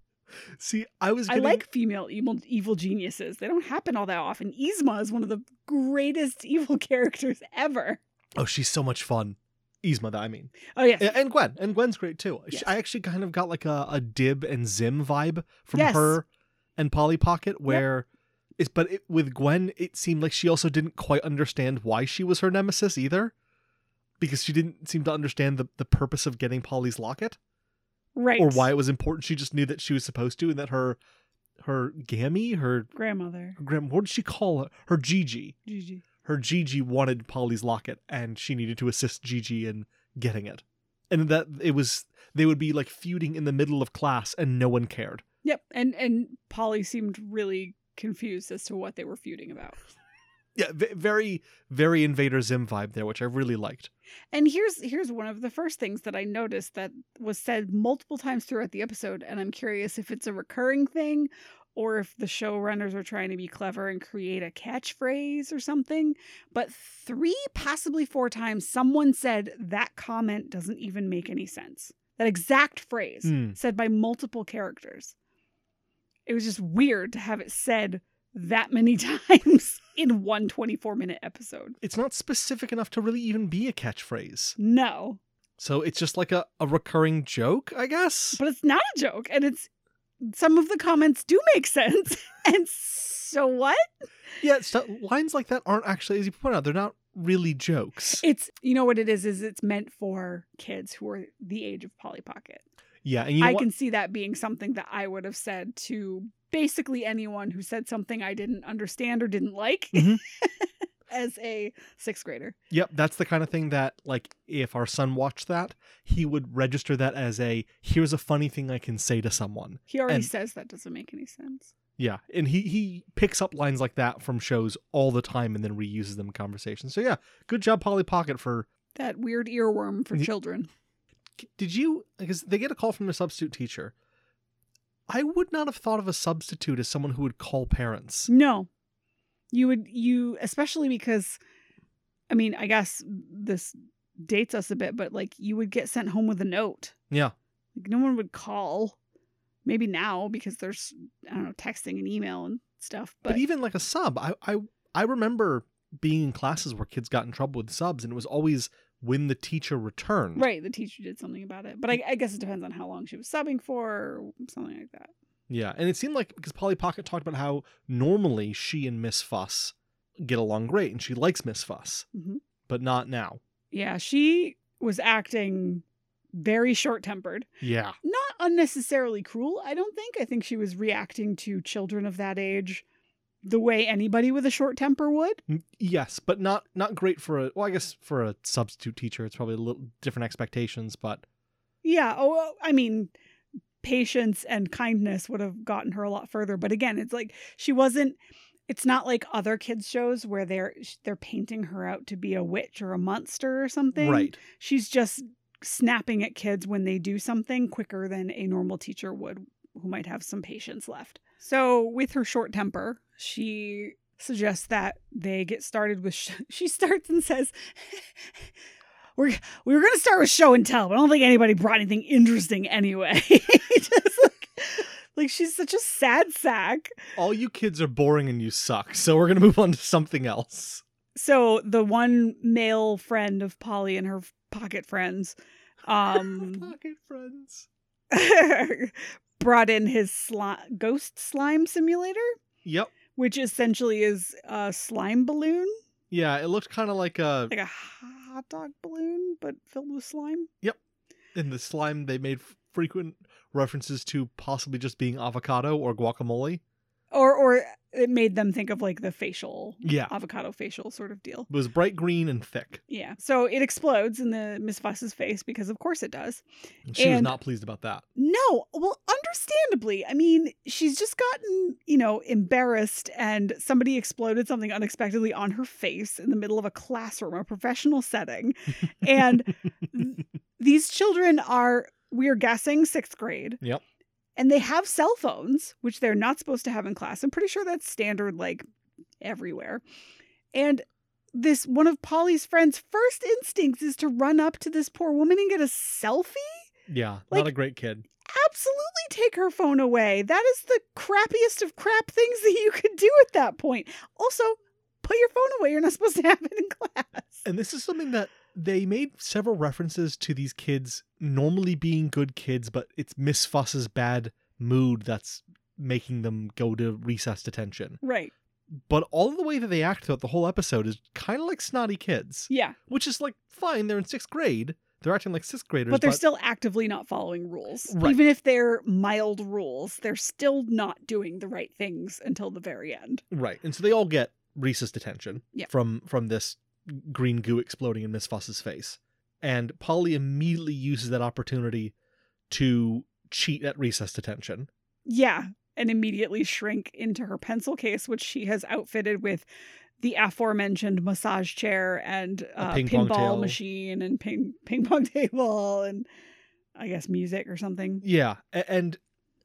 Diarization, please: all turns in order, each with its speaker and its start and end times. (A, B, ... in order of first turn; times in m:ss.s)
0:00.6-0:01.6 A
0:01.3-0:08.0 B
0:08.4-0:16.2 A
0:10.7-0:11.2 B
0:15.7-0:16.2 B
0:16.8-0:18.1 A
0:18.6-0:23.3 A
0:24.2-0:27.4 A
0:28.2-0:28.7 B
0:28.4-0:31.0 A
0:31.6-0:32.9 A
0:32.9-0:33.6 B
0:33.6-0:35.6 A
0:35.6-0:36.0 B
0:36.2-0:45.2 A
0:45.4-0:49.8 B
0:50.6-0:53.9 A
0:54.3-1:15.1 B
1:13.2-1:13.6 A
1:16.3-1:21.8 B
1:21.8-1:24.6 A
1:24.6-1:25.2 B
1:25.6-1:28.4 A
1:28.3-1:29.7 B
1:30.2-1:33.8 B
1:34.4-1:38.2 A
1:38.2-1:42.6 B
1:43.0-1:43.7 A
1:43.4-1:52.6 B
1:49.9-1:50.2 A
1:52.7-2:00.3 A
1:59.9-2:01.7 B
2:02.0-2:08.7 A
2:08.9-2:10.7 B
2:11.4-2:13.9 A
2:15.1-2:18.3 A
2:18.3-2:18.7 B
2:19.5-2:21.4 B
2:22.3-2:26.9 B
2:27.1-2:27.3 A
2:27.7-2:29.0 B
2:29.6-2:33.4 B
2:33.2-2:40.4 A
2:40.4-2:45.1 B
2:45.5-2:52.0 A
2:52.1-2:52.4 B
2:52.7-2:53.4 A
2:53.7-2:57.5 B
2:57.6-2:58.0 A
2:58.0-3:02.8 B
3:03.4-3:05.4 B
3:05.5-3:11.2 A
3:11.8-3:13.1 B
3:13.8-3:38.4 B
3:24.0-3:24.4 A
3:39.2-3:47.1 B
3:47.2-3:50.8 A
3:51.2-3:56.7 B
3:56.1-3:57.7 A
3:58.1-4:02.3 B
4:02.6-4:02.9 A
4:03.1-4:05.7 B
4:06.1-4:07.5 A
4:07.5-4:10.5 B
4:11.3-4:16.6 A
4:17.1-4:21.5 B
4:19.8-4:20.1 A
4:21.5-4:22.8 A
4:22.9-4:26.4 B
4:26.9-4:28.0 A
4:27.0-4:27.4 B
4:28.2-4:43.6 B
4:44.4-4:48.6 B
4:49.2-4:49.8 B
4:50.5-4:56.7 B
4:56.9-4:58.0 A
4:58.2-5:07.4 B
5:07.4-5:18.0 A
5:18.0-5:18.3 B
5:18.9-5:26.2 A
5:22.5-5:22.8 B
5:25.9-5:33.2 B
5:27.9-5:28.2 A
5:33.3-5:41.9 A
5:42.5-5:44.7 A
5:45.0-5:49.4 B
5:50.0-5:56.0 B
5:52.6-5:53.6 A
5:56.7-5:58.0 B
5:58.0-5:59.0 A